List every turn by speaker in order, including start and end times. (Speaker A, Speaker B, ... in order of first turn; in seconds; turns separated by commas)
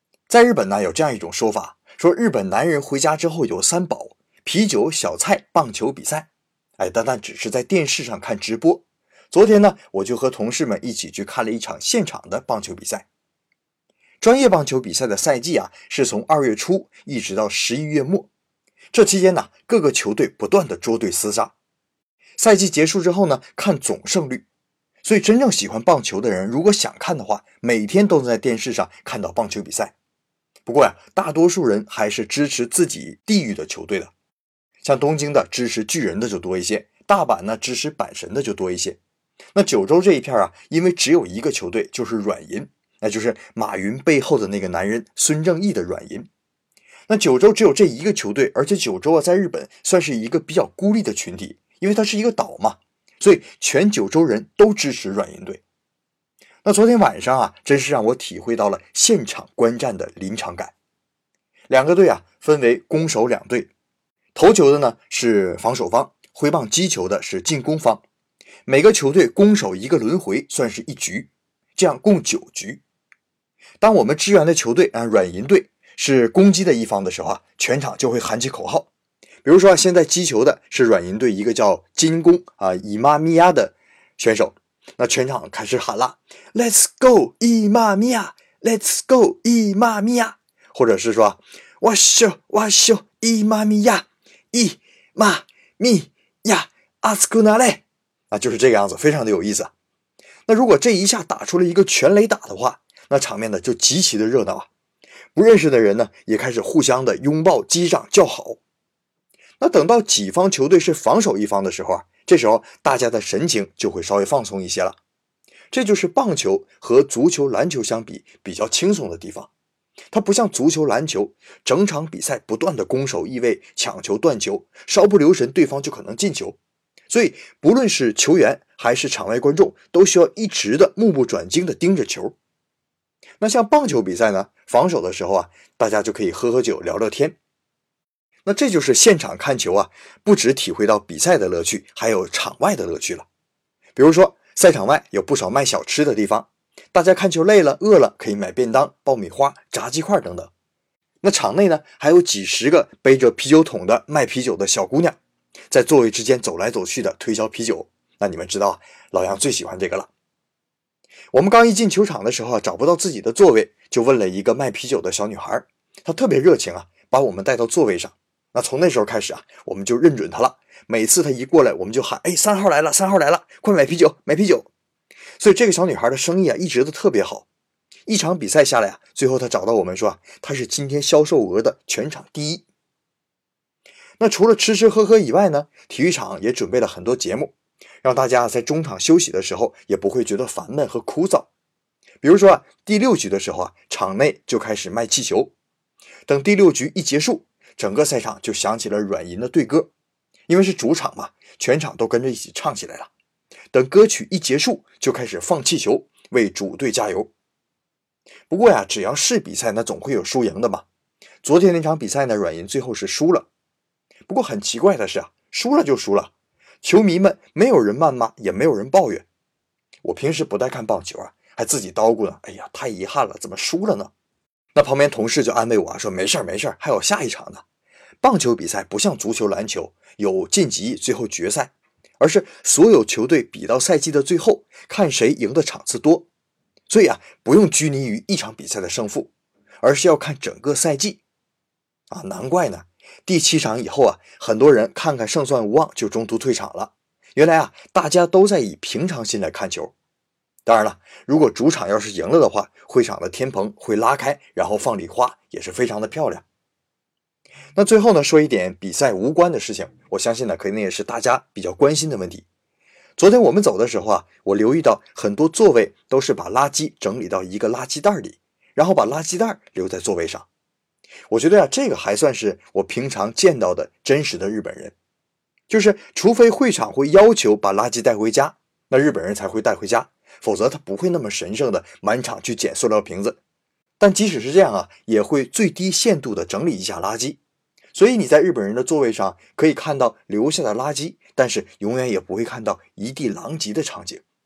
Speaker A: 0.3-13.1, Speaker A: 14.2-18.3, Speaker A: 18.9-21.5, Speaker A: 22.4-24.4, Speaker A: 25.0-29.9, Speaker A: 30.6-34.1, Speaker A: 34.8-39.0, Speaker A: 39.5-46.3, Speaker A: 47.1-55.6, Speaker A: 56.6-60.7, Speaker A: 61.7-63.7, Speaker A: 64.3-68.0, Speaker A: 68.7-72.8, Speaker A: 73.8-78.9, Speaker A: 79.4-99.7, Speaker A: 100.5-104.7, Speaker A: 105.3-108.6, Speaker A: 109.6-115.0, Speaker A: 115.7-119.5, Speaker A: 120.1-126.6, Speaker A: 127.1-132.3, Speaker A: 133.4-137.4, Speaker A: 138.4-143.2, Speaker A: 143.9-150.5, Speaker A: 151.2-155.2, Speaker A: 155.7-160.1, Speaker A: 161.3-174.7, Speaker A: 175.4-177.4, Speaker A: 178.1-182.6, Speaker A: 184.2-191.5, Speaker A: 192.2-195.5, Speaker A: 196.3-199.9, Speaker A: 200.5-203.1, Speaker A: 203.7-207.3, Speaker A: 208.5-210.8, Speaker A: 211.4-213.5, Speaker A: 214.3-219.2, Speaker A: 220.0-224.1, Speaker A: 224.7-227.6, Speaker A: 228.2-236.3, Speaker A: 236.9-241.2, Speaker A: 242.1-249.9, Speaker A: 250.7-256.4, Speaker A: 257.7-262.4, Speaker A: 263.2-270.5, Speaker A: 271.3-274.9, Speaker A: 275.7-283.4, Speaker A: 284.0-287.4, Speaker A: 287.9-294.2